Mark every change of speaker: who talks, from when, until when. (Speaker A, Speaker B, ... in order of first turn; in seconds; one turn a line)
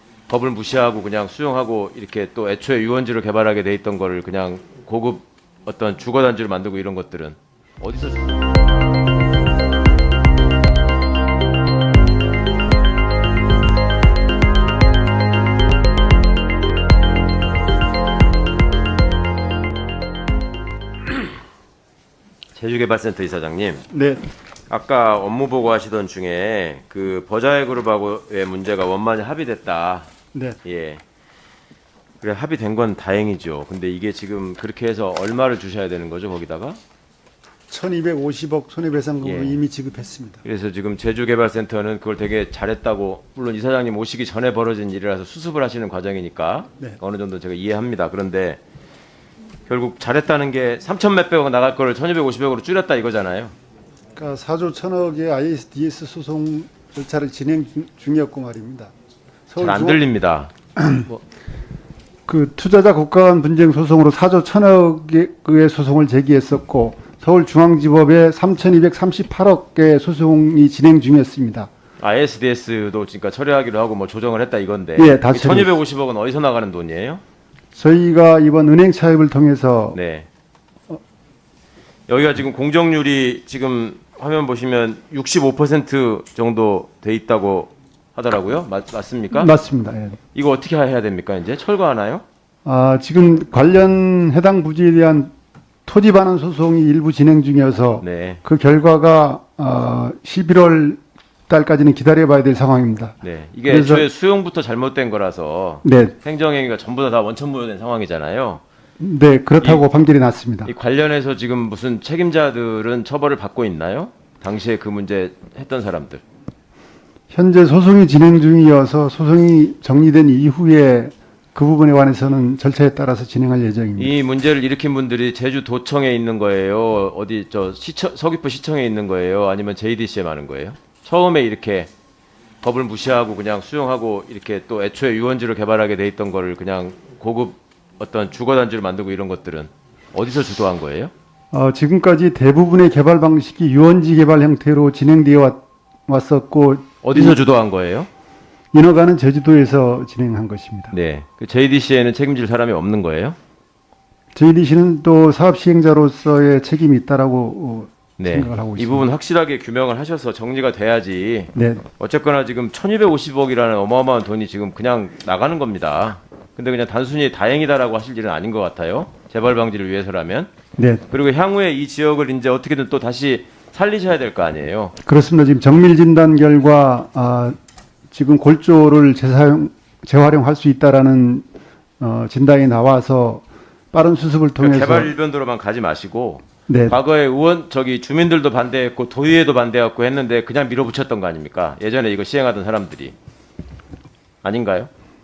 Speaker A: 0.3-8.3
Speaker A: 22.6-23.9
Speaker B: 23.9-24.2
Speaker A: 24.7-30.1
Speaker A: 30.6-31.0
Speaker A: 32.2-36.8
Speaker B: 37.7-40.4
Speaker A: 39.2-39.6
Speaker A: 40.4-48.6
Speaker A: 49.7-53.5
Speaker B: 54.2-58.9
Speaker B: 59.5-60.0
Speaker A: 59.6-60.5
Speaker B: 60.8-61.1
Speaker B: 62.3-71.7
Speaker A: 72.0-77.2
Speaker B: 75.0-75.7
Speaker B: 77.8-80.0
Speaker A: 79.9-80.3
Speaker A: 82.1-89.5
Speaker B: 89.4-90.2
Speaker A: 90.3-92.2
Speaker B: 92.7-95.3
Speaker B: 95.9-104.1
Speaker A: 98.0-98.4
Speaker A: 103.2-108.6
Speaker B: 105.8-106.2
Speaker B: 109.0-110.7
Speaker A: 110.7-116.2
Speaker B: 117.3-124.1
Speaker A: 124.0-131.9
Speaker A: 132.6-141.1
Speaker B: 141.5-147.4
Speaker A: 147.0-148.1
Speaker B: 148.7-150.9
Speaker A: 150.9-153.4
Speaker B: 154.3-159.1
Speaker A: 158.2-170.5
Speaker B: 161.6-161.8
Speaker B: 170.8-171.1
Speaker A: 171.1-174.9
Speaker B: 175.1-177.6
Speaker B: 178.1-181.5
Speaker B: 182.0-185.1
Speaker A: 184.6-193.1
Speaker B: 186.7-186.9
Speaker A: 194.4-194.9